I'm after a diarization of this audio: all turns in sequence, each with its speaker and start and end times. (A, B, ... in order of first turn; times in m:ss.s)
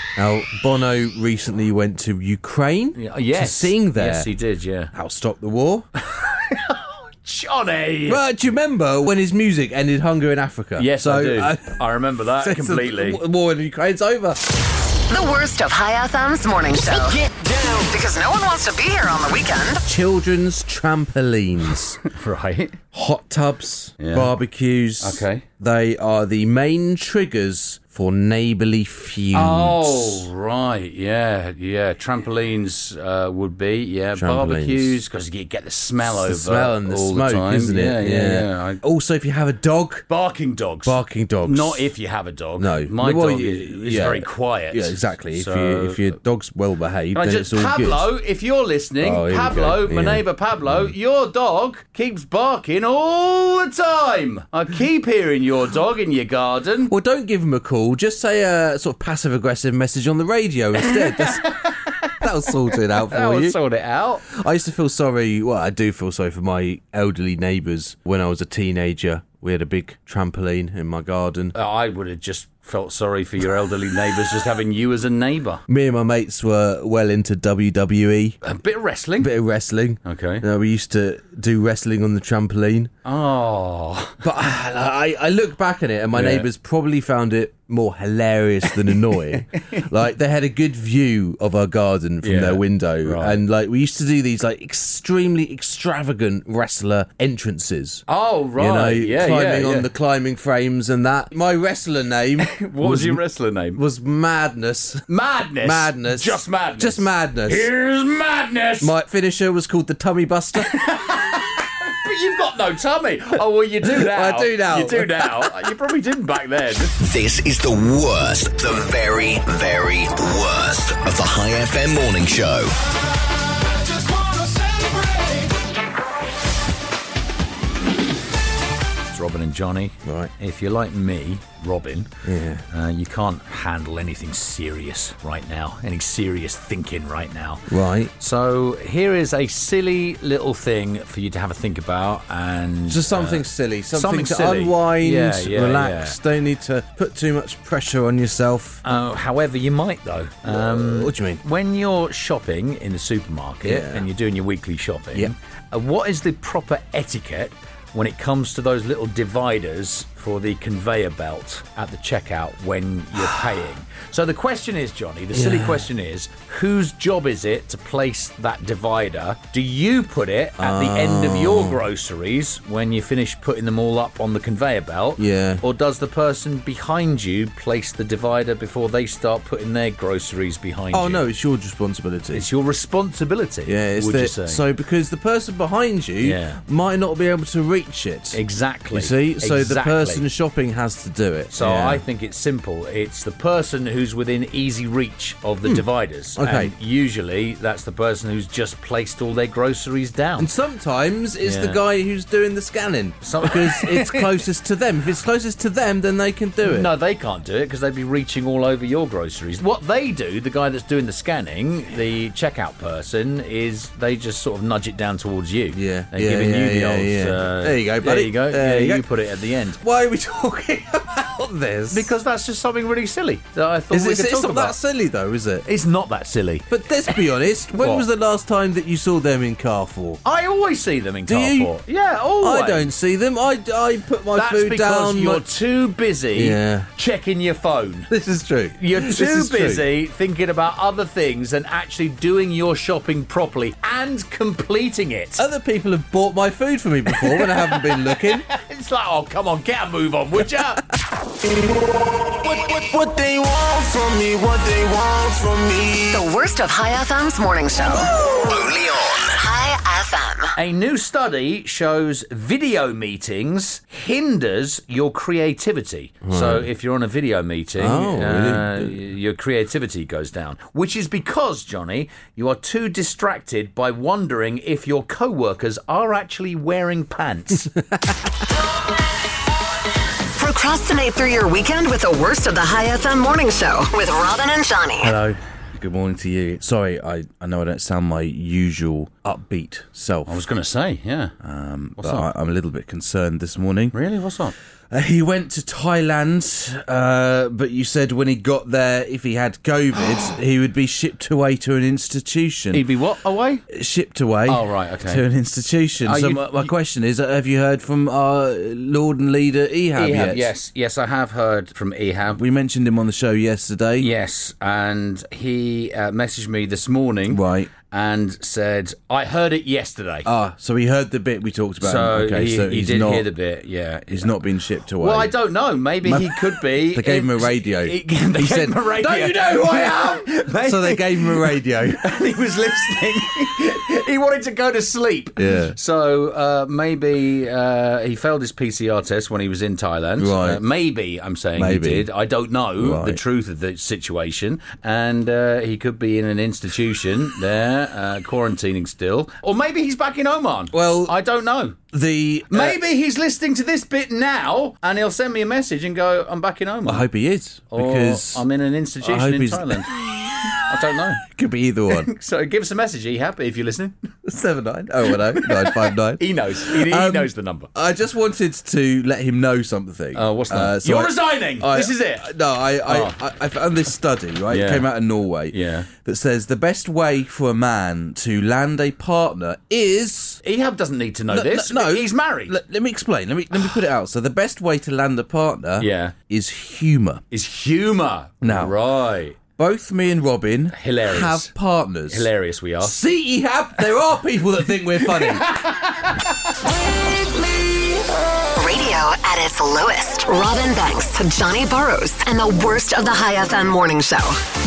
0:00.2-0:04.3 A
0:03.0-0:04.9 B
0:04.9-0:05.9 A
0:06.2-0:08.2 B
0:08.1-0:14.4 A
0:10.8-0:13.2 B
0:15.1-0:19.8 C
0:19.9-0:22.0 A
0:22.0-0:22.8 B
0:22.9-0:30.3 A
0:24.0-0:24.3 B
0:25.0-0:25.4 B
0:29.3-0:38.8 B
0:34.2-0:35.0 A
0:36.1-0:40.0 A
0:40.1-0:46.1 B
0:40.8-0:41.9 A
0:42.6-0:48.1 A
0:47.1-0:56.9 B
0:49.0-0:50.9 A
0:56.9-1:03.6 A
1:03.0-1:04.2 B
1:04.3-1:11.6 A
1:11.6-1:15.6 B
1:15.7-1:18.4 A
1:18.4-1:19.3 B
1:19.2-1:22.9 A
1:20.0-1:20.4 B
1:23.0-1:24.2 B
1:24.2-1:38.0 A
1:26.1-1:26.5 B
1:32.2-1:33.4 B
1:38.1-1:39.9 B
1:38.6-1:43.2 A
1:42.4-1:43.8 B
1:43.8-1:45.1 A
1:45.1-1:48.9 B
1:45.6-1:47.7 A
1:48.8-1:50.8 A
1:50.6-1:57.0 B
1:53.8-1:55.5 A
1:57.0-2:02.8 D
2:03.9-2:05.5 E
2:09.1-2:12.1 B
2:10.0-2:10.3 A
2:12.2-2:12.6 A
2:12.7-2:17.6 B
2:17.7-2:18.1 A
2:18.2-2:26.2 B
2:22.9-2:28.8 A
2:28.8-3:01.2 B
2:30.4-2:31.4 A
2:33.6-2:34.1 A
2:45.3-2:45.9 A
2:50.6-2:51.8 A
2:55.2-2:55.6 A
3:00.9-3:02.5 A
3:02.3-3:04.6 B
3:03.7-3:08.4 A
3:06.2-3:06.6 B
3:08.3-3:10.2 B
3:08.9-3:12.0 A
3:11.5-3:20.5 B
3:15.7-3:16.7 A
3:20.4-3:26.9 A
3:21.4-3:21.8 B
3:23.2-3:24.3 B
3:26.6-3:39.8 B
3:35.7-3:39.0 A
3:39.8-3:42.1 A
3:41.9-3:44.8 B
3:43.9-3:45.6 A
3:45.7-3:47.2 B
3:46.7-3:50.2 A
3:47.7-3:48.1 B
3:50.2-3:52.9 B
3:51.3-3:51.7 A
3:52.4-3:55.4 A
3:54.4-3:58.1 B
3:56.3-3:56.9 A
3:58.1-3:59.9 A
3:58.8-4:05.4 B
4:05.4-4:08.5 A
4:07.3-4:10.9 B
4:11.5-4:16.3 E
4:16.1-4:18.1 C
4:18.5-4:19.3 D
4:19.3-4:20.5 C
4:20.6-4:37.7 B
4:26.2-4:26.7 A
4:27.8-4:29.0 A
4:37.8-4:38.1 A
4:40.4-4:45.2 C
4:45.0-4:50.4 A
4:50.3-4:51.4 B
4:51.4-4:54.0 A
4:52.0-4:52.3 B
4:53.9-4:54.6 B
4:54.9-5:02.8 A
5:02.7-5:03.6 B
5:03.7-5:10.5 A
5:04.5-5:05.2 B
5:06.0-5:06.7 B
5:10.0-5:12.4 B
5:12.3-5:14.1 A
5:14.0-5:20.3 B
5:17.3-5:17.7 A
5:20.2-5:23.3 A
5:21.8-5:24.4 B
5:24.1-5:25.4 A
5:25.0-5:51.8 B
5:26.0-5:32.1 A
5:35.4-5:35.8 A
5:40.2-5:40.6 A
5:41.6-5:42.1 A
5:42.8-5:43.2 A
5:50.7-5:51.2 A
5:51.9-5:52.8 A
5:52.5-5:57.1 B
5:56.9-5:58.4 A
5:57.7-5:59.9 B
5:59.0-6:00.5 A
6:00.6-6:01.2 B
6:01.2-6:02.1 A
6:01.9-6:04.0 B
6:04.2-6:20.4 A
6:05.1-6:07.7 B
6:10.2-6:12.3 B
6:12.9-6:13.2 B
6:14.5-6:14.9 B
6:15.5-6:15.9 B
6:20.4-6:22.6 B
6:21.3-6:27.2 A
6:25.8-6:26.1 B
6:27.3-6:29.4 B
6:28.4-6:28.8 A
6:29.6-6:32.3 A
6:30.7-6:31.5 B
6:32.1-6:33.0 B
6:32.8-6:35.5 A
6:35.0-6:36.2 B
6:38.6-6:44.4 C